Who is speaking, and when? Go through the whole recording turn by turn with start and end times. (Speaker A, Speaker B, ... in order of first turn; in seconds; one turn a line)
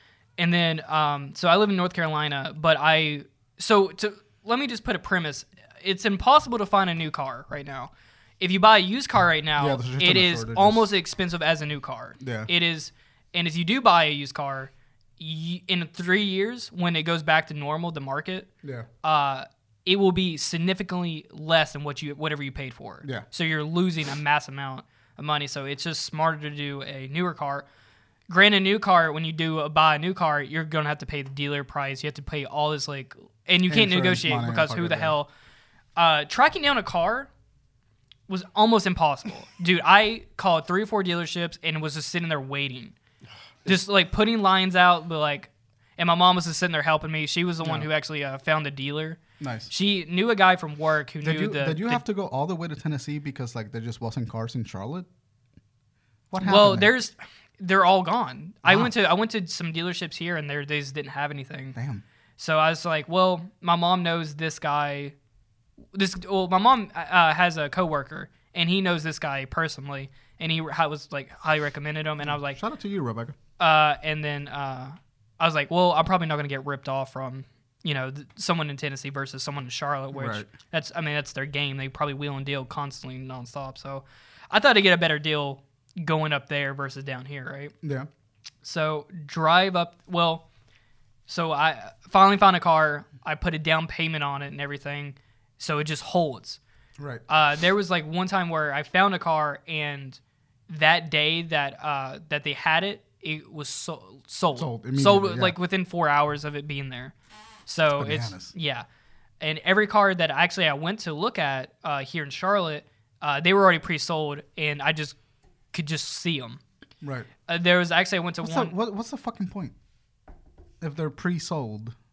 Speaker A: 0.4-18.5
Speaker B: 9.6-10.9
Speaker B: 12.2-12.5
Speaker A: 19.0-27.7
Speaker A: 28.3-35.3
Speaker B: 33.7-35.2
Speaker A: 36.0-37.3
Speaker A: 38.3-43.0
Speaker A: 43.6-49.2
Speaker B: 47.6-47.9
Speaker B: 49.4-49.7
Speaker A: 49.7-52.0
Speaker B: 51.2-55.1
Speaker B: 56.3-56.9
Speaker A: 56.4-61.8
Speaker B: 58.6-58.9
Speaker B: 61.8-62.0
Speaker A: 62.4-65.2
Speaker A: 65.9-72.6
Speaker B: 72.2-73.4
Speaker A: 73.6-87.7
Speaker B: 80.1-80.5
Speaker B: 87.8-88.1
Speaker A: 88.6-90.5
Speaker A: 91.3-96.6
Speaker B: 97.0-97.2
Speaker A: 97.3-107.1
Speaker B: 104.6-105.6
Speaker A: 107.7-108.9
Speaker B: 108.0-108.5
Speaker A: 109.4-115.2
Speaker A: 115.7-116.6
Speaker B: 117.0-117.3
Speaker A: 117.5-118.7
Speaker B: 118.4-119.7
Speaker B: 120.8-122.0